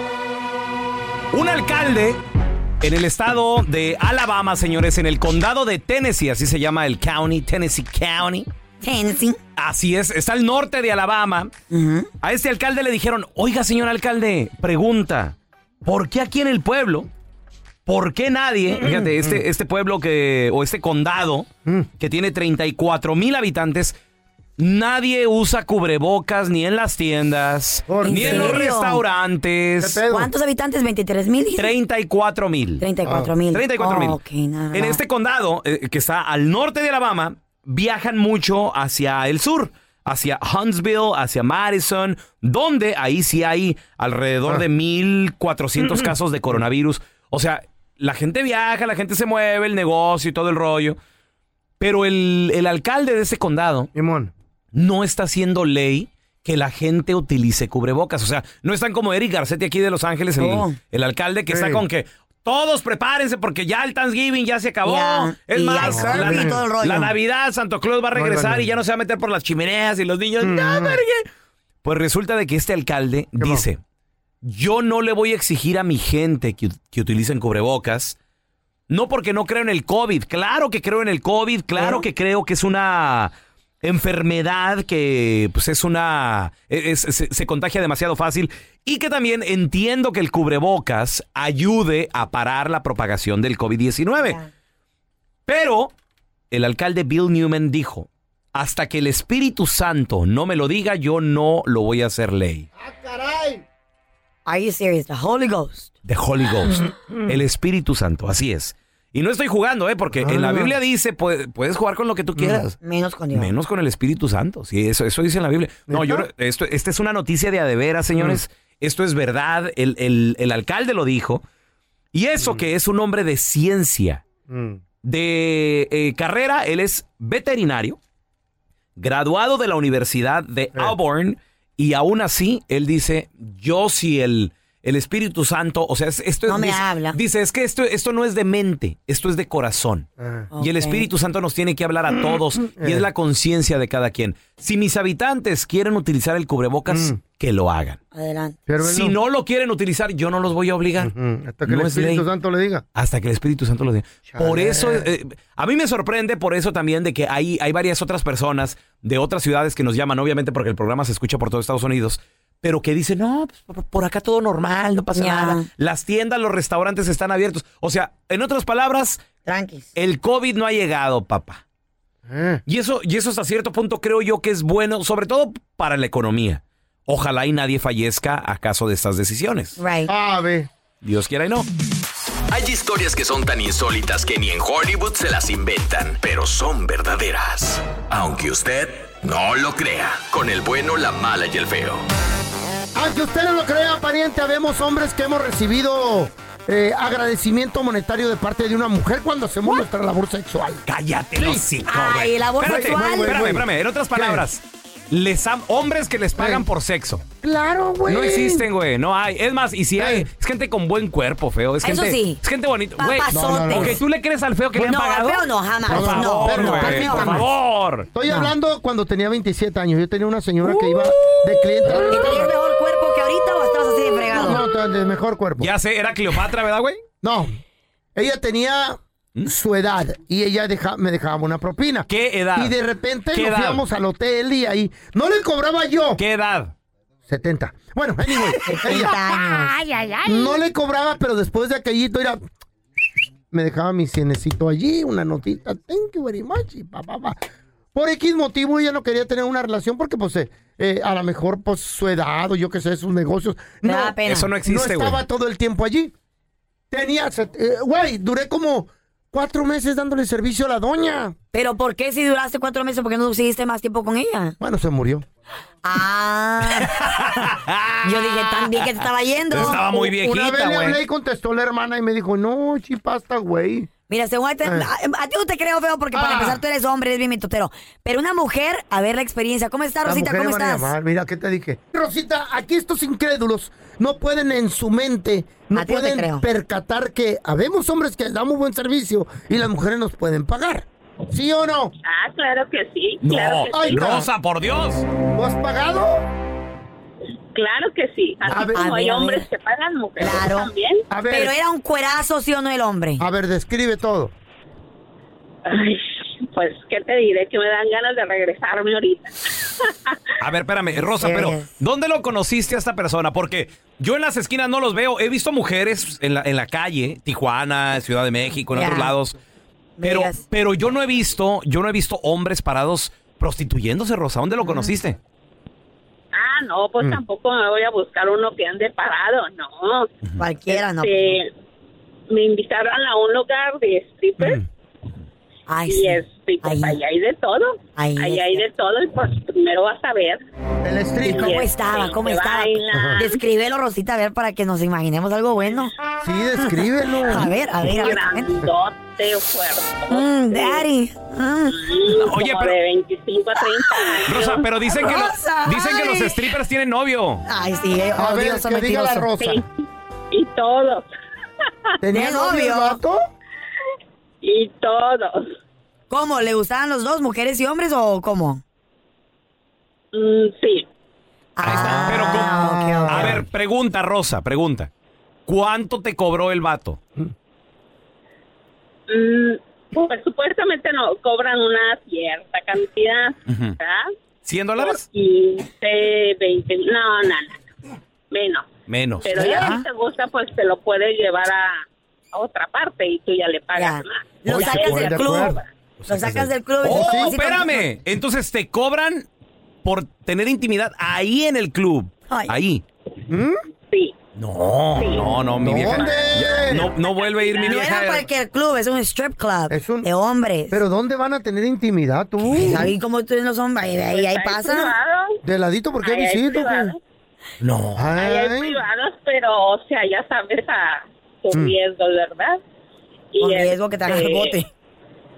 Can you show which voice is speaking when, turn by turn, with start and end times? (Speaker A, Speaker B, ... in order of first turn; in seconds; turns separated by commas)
Speaker A: 1.3-2.2, Speaker A: 2.8-8.5, Speaker B: 8.8-9.4, Speaker A: 9.6-11.5, Speaker B: 11.7-12.1, Speaker A: 12.2-17.1, Speaker A: 17.9-21.5, Speaker C: 18.7-19.4, Speaker A: 22.0-24.0, Speaker A: 24.6-30.0, Speaker C: 27.9-28.6, Speaker B: 28.0-29.0, Speaker C: 29.8-30.3, Speaker B: 30.1-31.7, Speaker A: 31.6-32.8, Speaker B: 32.8-35.0, Speaker C: 33.0-33.3, Speaker A: 33.5-34.2, Speaker A: 34.7-51.0, Speaker C: 45.9-46.6, Speaker A: 51.8-53.9, Speaker C: 53.9-54.3, Speaker A: 54.7-71.2, Speaker B: 60.4-60.8, Speaker C: 61.5-61.8, Speaker B: 64.8-67.1, Speaker C: 65.8-66.6, Speaker C: 68.1-68.7, Speaker C: 70.4-71.0, Speaker A: 71.8-73.8, Speaker C: 73.4-73.6, Speaker A: 74.4-78.2, Speaker A: 78.9-83.3, Speaker A: 83.8-94.4, Speaker B: 94.2-94.5, Speaker A: 95.5-95.9, Speaker A: 96.5-102.7, Speaker C: 102.8-103.6, Speaker B: 104.5-105.9, Speaker A: 106.0-112.7, Speaker C: 107.1-107.3, Speaker C: 110.2-110.7, Speaker C: 112.3-112.6, Speaker B: 112.8-113.5, Speaker A: 113.3-121.4, Speaker C: 115.9-116.3, Speaker A: 122.1-124.2, Speaker C: 122.4-122.6, Speaker C: 124.5-124.8, Speaker A: 125.0-128.0, Speaker A: 129.0-140.1, Speaker B: 136.5-137.2, Speaker C: 140.2-140.5, Speaker B: 140.5-141.0, Speaker A: 140.6-148.0, Speaker C: 142.1-143.1, Speaker C: 146.9-147.2, Speaker B: 148.1-148.6, Speaker C: 148.7-149.2, Speaker A: 148.8-151.1, Speaker C: 151.0-152.8, Speaker A: 151.7-152.2, Speaker A: 152.9-169.2, Speaker C: 154.3-155.1, Speaker B: 165.1-165.7, Speaker B: 169.4-169.9, Speaker A: 169.9-171.6, Speaker C: 172.2-172.6, Speaker A: 172.7-179.8, Speaker B: 179.8-180.1, Speaker C: 180.1-180.7, Speaker A: 181.0-181.7, Speaker D: 182.5-192.0, Speaker C: 192.9-200.8, Speaker A: 200.8-207.2, Speaker C: 201.4-201.6, Speaker B: 201.9-203.5, Speaker C: 202.6-204.4, Speaker C: 206.4-206.6, Speaker C: 207.4-208.7, Speaker A: 208.1-218.1, Speaker C: 210.0-210.3, Speaker B: 211.8-212.4, Speaker B: 213.0-214.0, Speaker C: 213.3-214.0, Speaker B: 214.7-217.4, Speaker C: 215.8-217.5, Speaker C: 218.1-222.5, Speaker B: 218.3-218.5, Speaker B: 222.1-224.6, Speaker C: 224.3-225.7, Speaker A: 225.6-227.0, Speaker C: 227.2-227.6, Speaker C: 228.1-236.2, Speaker A: 232.1-232.7, Speaker A: 233.3-233.8, Speaker A: 236.2-236.7, Speaker C: 237.3-239.7, Speaker B: 238.6-240.4, Speaker C: 240.2-242.4, Speaker C: 243.5-247.4, Speaker C: 247.9-256.1, Speaker B: 253.8-254.5, Speaker A: 254.2-255.2, Speaker C: 256.9-261.3, Speaker B: 261.5-264.6, Speaker C: 264.6-265.2, Speaker B: 265.8-267.1, Speaker A: 266.8-268.9, Speaker B: 268.0-269.8, Speaker A: 269.5-271.0, Speaker C: 269.6-273.9, Speaker B: 274.1-280.9, Speaker C: 274.6-274.9, Speaker C: 276.1-276.6, Speaker C: 280.0-291.9, Speaker B: 285.8-286.4, Speaker E: 292.0-294.2, Speaker A: 293.2-295.0, Speaker C: 293.7-294.2, Speaker C: 295.3-296.3, Speaker E: 297.5-301.0, Speaker C: 298.4-298.9, Speaker B: 298.7-299.4, Speaker B: 300.2-300.7, Speaker C: 301.1-301.5, Speaker B: 301.3-303.2, Speaker C: 303.2-304.3, Speaker E: 305.6-310.1, Speaker A: 310.4-319.4, Speaker B: 311.2-311.7, Speaker B: 318.7-319.1, Speaker B: 320.0-320.4, Speaker A: 320.0-325.2, Speaker B: 324.6-324.9, Speaker E: 326.3-330.1, Speaker B: 330.4-331.2, Speaker E: 330.7-331.5, Speaker E: 332.3-334.6, Speaker B: 335.7-337.0, Speaker E: 335.9-340.4, Speaker B: 338.0-338.6, Speaker C: 340.8-341.6, Speaker E: 341.2-343.4, Speaker B: 341.3-346.0, Speaker C: 342.9-343.2, Speaker C: 346.2-347.5, Speaker B: 347.2-348.6, Speaker E: 347.8-350.9, Speaker B: 350.1-351.9, Speaker E: 351.7-354.7, Speaker A: 352.1-352.8, Speaker B: 353.7-354.1, Speaker A: 354.3-357.4, Speaker B: 354.9-356.4, Speaker B: 357.5-359.3, Speaker C: 358.1-359.6, Speaker E: 360.3-361.1, Speaker C: 362.0-363.2, Speaker B: 362.1-363.0, Speaker E: 364.4-365.5, Speaker B: 366.1-368.6, Speaker E: 370.1-370.9, Speaker B: 371.6-373.4, Speaker C: 371.6-373.4, Speaker A: 371.6-374.9, Speaker A: 375.5-377.0, Speaker E: 379.1-384.1, Speaker A: 383.5-383.8, Speaker A: 384.4-385.0, Speaker E: 384.8-387.6, Speaker E: 388.3-388.7, Speaker A: 388.9-389.8, Speaker E: 389.2-395.6, Speaker B: 393.7-397.8, Speaker C: 394.5-395.6, Speaker A: 396.0-399.3, Speaker C: 396.8-397.7, Speaker A: 399.8-402.8, Speaker C: 403.3-403.6, Speaker E: 403.9-404.1, Speaker A: 404.4-408.3, Speaker E: 405.0-407.9, Speaker C: 405.6-406.9, Speaker B: 407.6-410.8, Speaker C: 409.7-410.1, Speaker C: 410.7-412.9, Speaker A: 412.4-412.8, Speaker B: 412.6-414.9, Speaker E: 414.0-415.4, Speaker C: 415.4-416.9, Speaker E: 416.0-417.0, Speaker A: 417.6-418.2, Speaker C: 418.0-418.8, Speaker E: 418.2-422.6, Speaker E: 423.3-424.6, Speaker B: 423.4-424.7